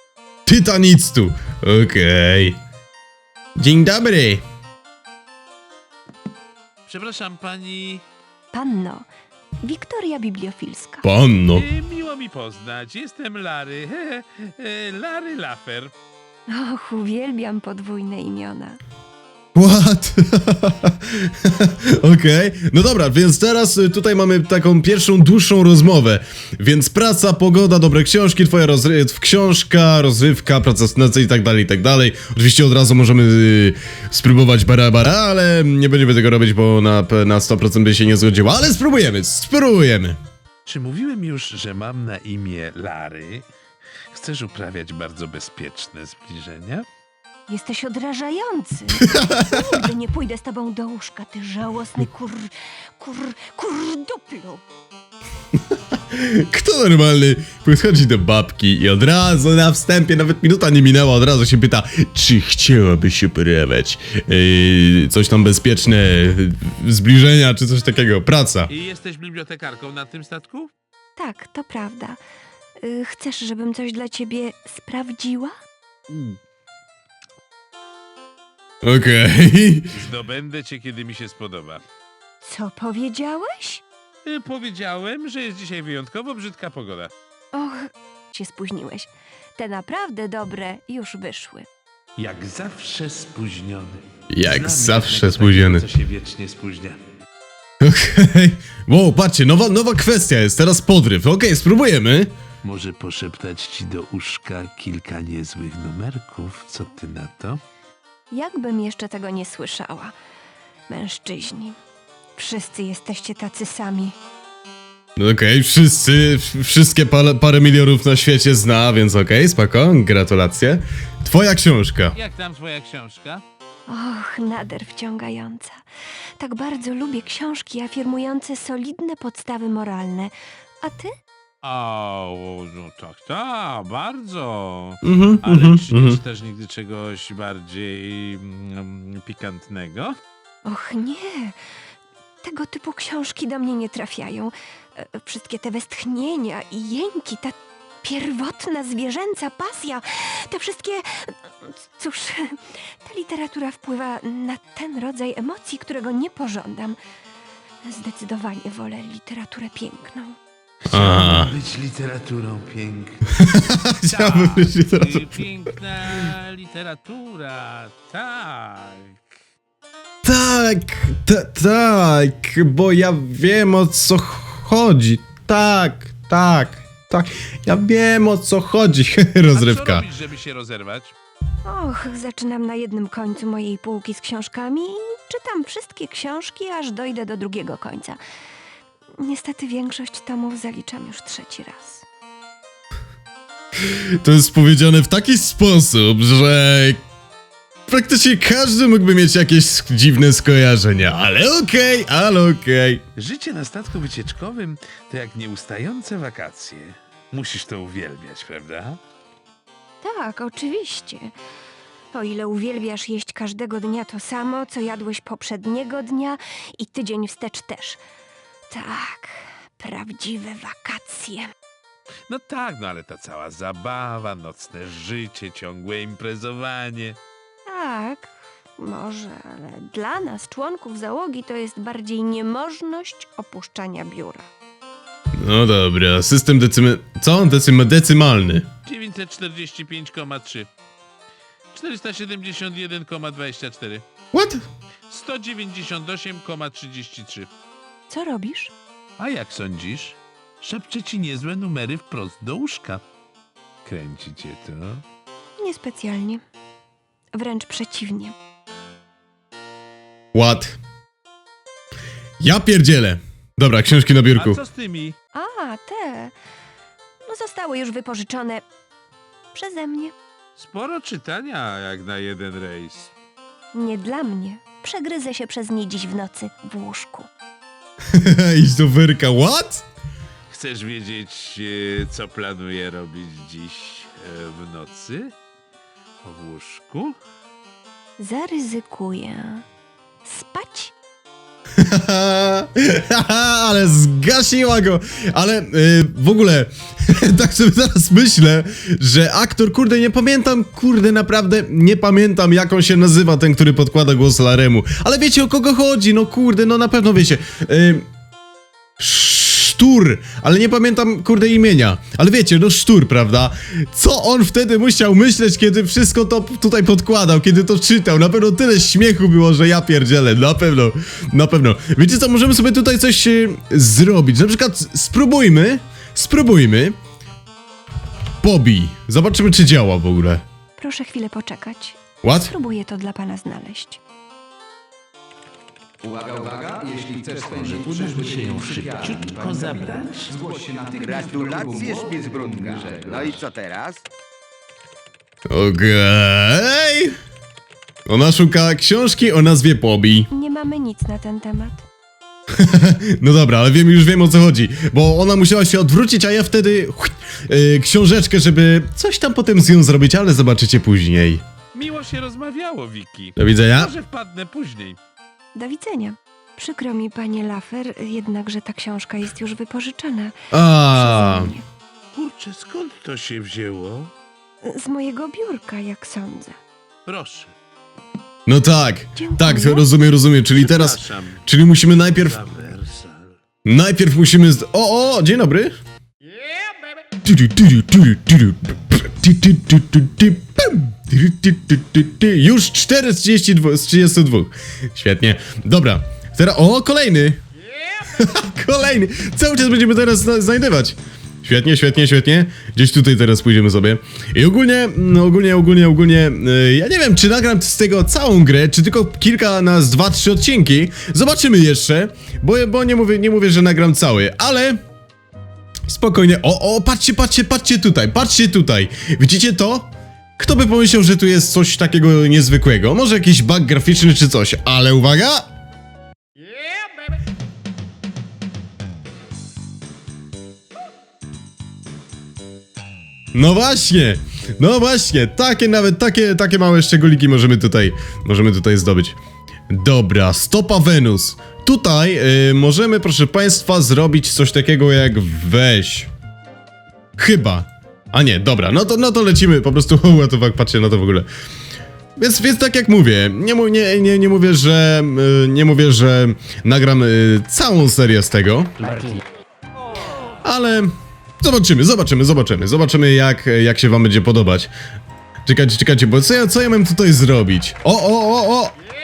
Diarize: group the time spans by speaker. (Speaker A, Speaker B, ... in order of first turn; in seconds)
Speaker A: 0.5-2.6, 3.6-4.4, 11.0-11.7, 19.6-40.2, 49.0-49.8, 55.7-68.7, 78.8-79.9, 94.3-95.8, 97.8-102.3, 115.2-122.2, 135.0-136.2, 160.9-161.5, 163.4-165.3, 170.2-180.1, 193.8-197.0, 197.9-203.0, 235.3-238.7, 244.3-244.6, 260.3-260.8, 262.4-264.6, 278.1-279.8, 291.8-308.1, 309.0-326.9, 328.4-330.4, 332.2-332.5, 345.5-347.2, 348.1-350.3, 352.5-361.4, 363.4-363.9, 370.5-371.5, 378.5-382.4, 383.6-385.8, 387.2-397.4, 398.0-414.8, 415.9-425.5, 433.3-439.2, 439.7-446.1, 447.2-451.3, 452.2-458.8, 460.4-464.7, 465.4-468.8
Speaker B: 6.9-8.0, 11.5-15.9, 40.6-43.5, 44.1-46.9, 68.7-70.7, 76.1-76.4, 79.9-81.8, 84.2-87.1, 92.2-97.0, 102.6-107.6, 122.1-123.4, 131.6-140.2, 160.9-163.5, 164.1-169.2, 179.5-181.2, 203.2-209.0, 222.3-227.2, 238.8-240.7, 241.7-244.1, 245.1-247.5, 249.2-253.0, 253.8-255.0, 264.3-265.2, 270.6-273.1, 280.5-285.3, 286.2-287.2, 337.5-340.3, 361.7-365.0, 372.1-374.1, 377.1-377.5, 380.5-383.4, 458.8-459.2
Speaker C: 8.5-9.1, 9.6-11.1, 16.5-18.8, 47.5-54.6, 71.2-72.2, 72.8-75.5, 82.4-83.8, 87.5-91.7, 108.3-110.1, 110.9-111.8, 112.4-114.2, 123.9-125.8, 126.4-131.1, 140.7-141.6, 142.4-157.0, 157.8-160.4, 181.7-188.2, 189.2-192.1, 210.0-211.3, 212.1-218.0, 218.7-221.5, 227.7-234.5, 248.1-248.7, 255.6-256.4, 257.3-258.4, 265.3-266.4, 267.2-268.6, 269.5-270.1, 273.7-277.3, 288.2-289.7, 290.2-290.9, 330.8-334.0, 350.3-351.8, 365.6-370.4, 370.9-371.6, 374.6-376.6, 379.2-379.9
Speaker D: 336.0-343.4
Speaker E: 341.0-344.1